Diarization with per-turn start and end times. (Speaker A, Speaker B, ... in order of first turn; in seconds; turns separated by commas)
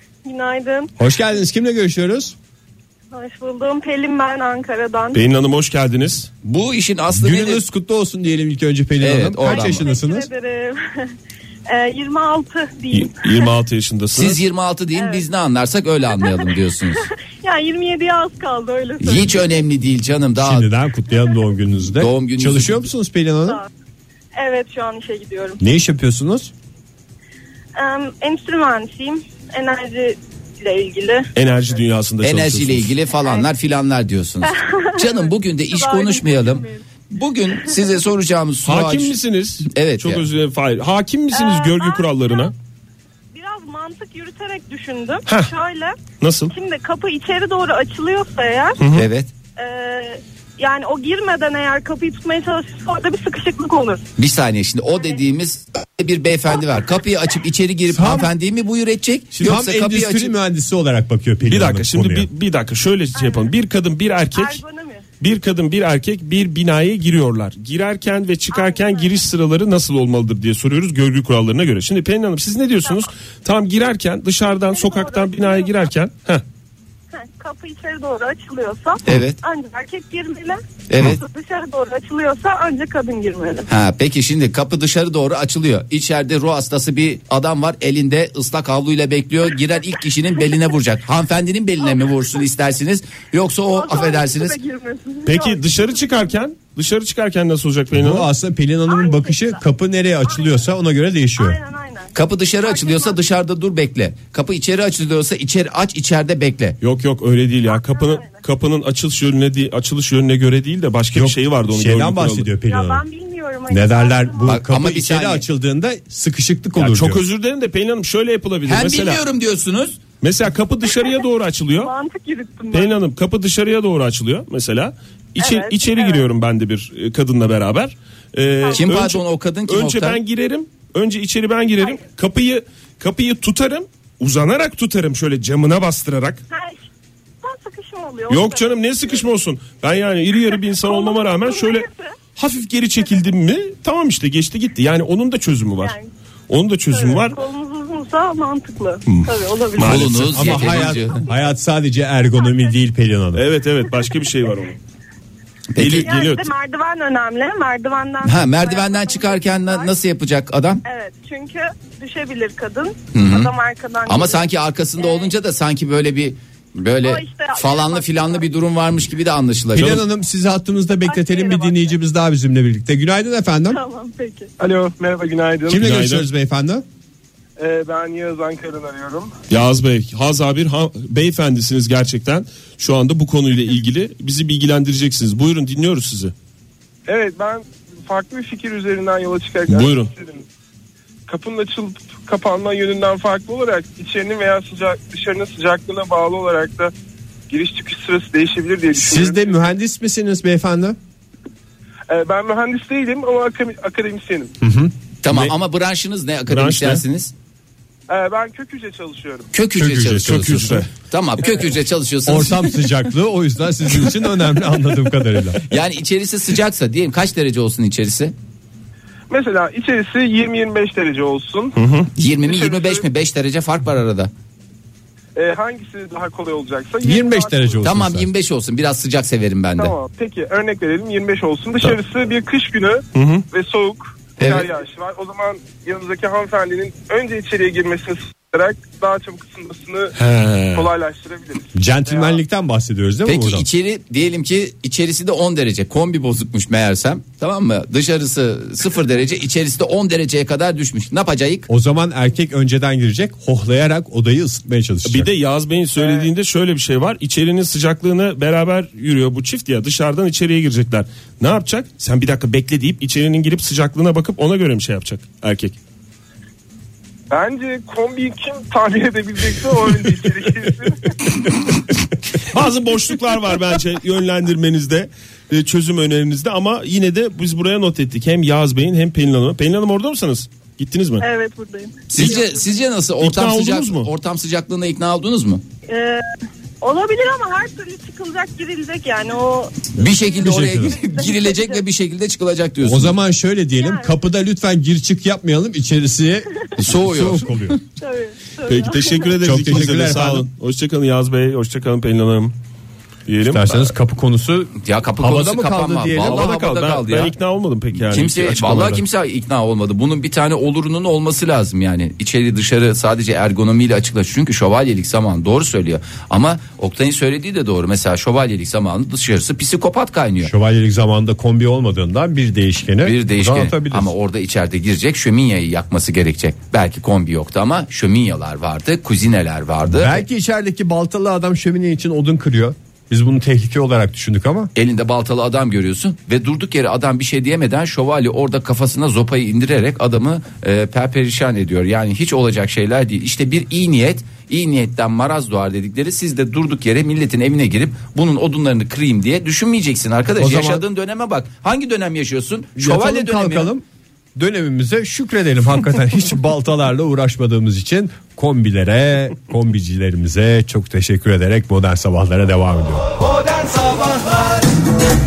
Speaker A: 0.2-0.9, Speaker B: 1.0-2.4, Speaker A: 3.1-5.2, Speaker C: 5.1-6.3, Speaker D: 6.4-7.6, Speaker B: 7.1-10.3, Speaker D: 9.0-9.9, Speaker A: 9.4-11.1, Speaker A: 11.7-13.5, Speaker C: 12.9-14.4, Speaker D: 14.2-17.1, Speaker A: 14.9-15.2, Speaker A: 16.1-16.5, Speaker A: 17.4-19.5, Speaker D: 19.0-20.7, Speaker B: 20.4-23.6, Speaker D: 21.9-22.9, Speaker A: 24.4-25.6, Speaker B: 25.6-26.5, Speaker A: 27.8-31.3, Speaker C: 31.4-32.9, Speaker D: 32.2-39.1, Speaker A: 34.5-36.8, Speaker C: 38.6-42.5, Speaker D: 39.7-40.2, Speaker A: 41.3-42.5, Speaker A: 43.3-46.0, Speaker C: 46.2-46.5, Speaker A: 46.5-48.8, Speaker C: 48.8-49.1, Speaker D: 48.9-49.3, Speaker A: 49.6-54.0, Speaker D: 54.2-60.3, Speaker B: 57.9-58.3, Speaker B: 59.4-62.3, Speaker C: 61.5-64.6, Speaker A: 63.2-63.5, Speaker A: 64.3-65.0, Speaker C: 65.2-76.4, Speaker A: 68.5-69.2, Speaker A: 74.5-75.9, Speaker A: 77.1-83.7, Speaker D: 79.1-79.4, Speaker D: 80.9-81.2, Speaker D: 83.7-94.6, Speaker A: 91.9-92.3, Speaker A: 93.7-96.3, Speaker C: 95.3-98.3, Speaker B: 97.9-101.6, Speaker A: 98.9-99.6, Speaker A: 100.3-100.7, Speaker A: 101.4-103.2, Speaker D: 102.2-106.8, Speaker C: 106.8-112.5, Speaker A: 107.7-108.4, Speaker B: 111.1-113.0, Speaker A: 112.7-114.6, Speaker B: 113.7-117.2, Speaker D: 114.4-115.5, Speaker C: 116.8-119.2, Speaker D: 118.7-120.0, Speaker C: 120.2-121.9, Speaker A: 120.9-121.2, Speaker A: 121.7-123.0, Speaker C: 122.7-136.4, Speaker A: 125.4-126.3, Speaker A: 128.6-129.0, Speaker D: 128.7-130.2, Speaker A: 136.5-136.8, Speaker A: 137.4-139.1, Speaker C: 138.3-145.9, Speaker A: 140.5-142.2, Speaker A: 145.8-146.1, Speaker C: 146.5-147.4, Speaker A: 146.9-150.7, Speaker C: 149.1-150.7, Speaker D: 149.8-151.2, Speaker B: 150.3-153.4, Speaker A: 152.4-152.7, Speaker C: 153.3-154.8, Speaker D: 155.7-156.1, Speaker C: 155.8-156.5, Speaker A: 156.0-159.9, Speaker D: 158.2-160.8, Speaker A: 160.8-164.4, Speaker D: 163.1-163.5, Speaker D: 164.1-170.0, Speaker A: 165.0-165.3, Speaker A: 167.0-168.5, Speaker B: 169.7-173.8, Speaker A: 171.1-171.9, Speaker A: 173.7-174.5, Speaker E: 174.6-175.9, Speaker B: 175.7-176.8, Speaker C: 175.7-176.3, Speaker E: 177.6-179.3, Speaker C: 179.5-186.3, Speaker E: 187.1-190.4, Speaker C: 189.7-190.1, Speaker E: 191.3-196.9, Speaker E: 197.5-199.7, Speaker B: 198.9-201.0, Speaker E: 202.1-204.5, Speaker B: 204.6-205.5, Speaker D: 205.2-207.3, Speaker C: 206.5-207.0, Speaker E: 208.1-209.5, Speaker D: 209.5-212.9, Speaker B: 209.7-210.8, Speaker C: 210.2-210.9, Speaker B: 212.3-215.6, Speaker D: 215.7-218.3, Speaker E: 219.3-221.8, Speaker C: 221.8-222.1, Speaker D: 222.2-224.3, Speaker E: 222.4-223.0, Speaker E: 225.4-227.8, Speaker B: 227.0-228.3, Speaker D: 227.8-229.9, Speaker E: 229.8-240.1, Speaker C: 233.2-233.4, Speaker D: 234.4-234.7, Speaker C: 240.2-240.9, Speaker E: 240.7-242.4, Speaker B: 241.8-243.7, Speaker D: 243.3-251.7, Speaker B: 251.7-255.3, Speaker C: 255.1-265.8, Speaker E: 256.0-256.3, Speaker E: 267.3-271.1, Speaker C: 272.5-281.2, Speaker A: 281.2-282.5, Speaker D: 282.1-285.6, Speaker C: 283.2-284.1, Speaker A: 285.9-286.2, Speaker A: 286.8-291.8, Speaker D: 290.0-293.1, Speaker B: 290.4-291.0, Speaker B: 292.8-297.8, Speaker A: 293.8-294.1, Speaker D: 296.8-297.6, Speaker A: 298.0-299.4, Speaker C: 298.7-302.5, Speaker B: 299.4-300.5, Speaker C: 303.3-303.9, Speaker B: 303.4-306.5, Speaker D: 304.8-307.3, Speaker C: 306.2-309.0, Speaker D: 308.0-320.5, Speaker B: 320.4-324.1, Speaker D: 323.0-330.2, Speaker B: 329.9-334.7, Speaker D: 334.8-353.7, Speaker B: 350.4-350.8, Speaker B: 352.8-353.8, Speaker B: 354.4-363.1